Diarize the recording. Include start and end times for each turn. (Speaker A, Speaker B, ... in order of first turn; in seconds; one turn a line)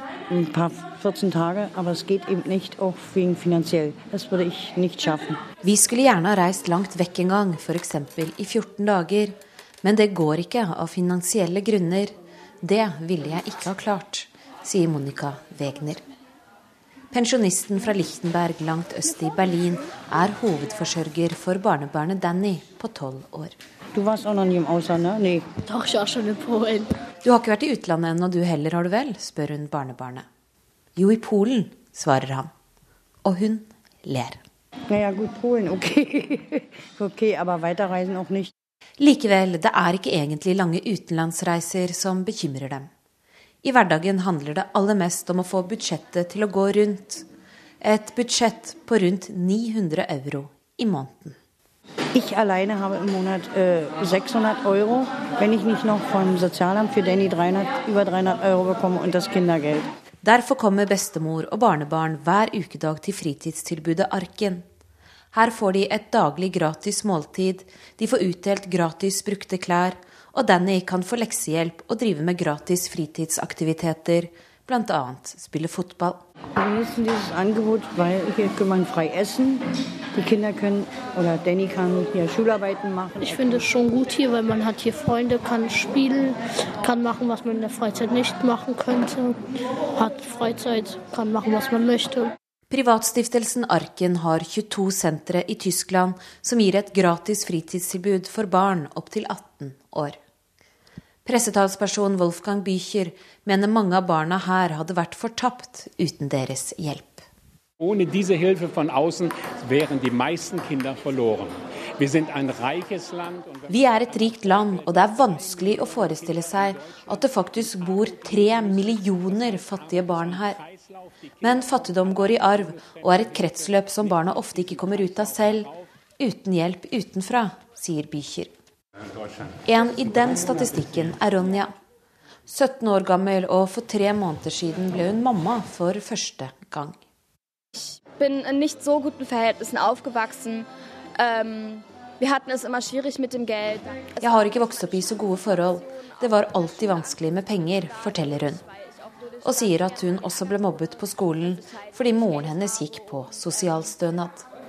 Speaker A: 0.3-5.4
Speaker B: 5.6-16.0
Speaker B: 17.1-23.5
Speaker A: 23.9-25.4
Speaker C: 25.6-26.9
Speaker B: 27.2-30.2
Speaker B: 30.9-32.5
Speaker B: 33.2-34.4
Speaker A: 34.9-38.5
Speaker B: 39.0-42.9
Speaker B: 43.6-47.2
Speaker B: 47.8-51.4
Speaker A: 52.1-59.9
Speaker B: 60.2-64.6
Speaker B: 65.3-76.2
Speaker A: 76.5-83.6
Speaker C: 83.2-89.4
Speaker C: 90.0-92.3
Speaker B: 92.7-100.2
Speaker B: 101.2-107.2
Speaker D: 107.8-111.5
Speaker D: 112.1-112.9
Speaker B: 113.7-120.6
Speaker B: 121.4-128.5
Speaker B: 129.6-131.7
Speaker B: 132.5-137.0
Speaker E: 137.7-140.7
Speaker E: 141.2-144.3
Speaker B: 144.2-148.6
Speaker B: 149.4-154.4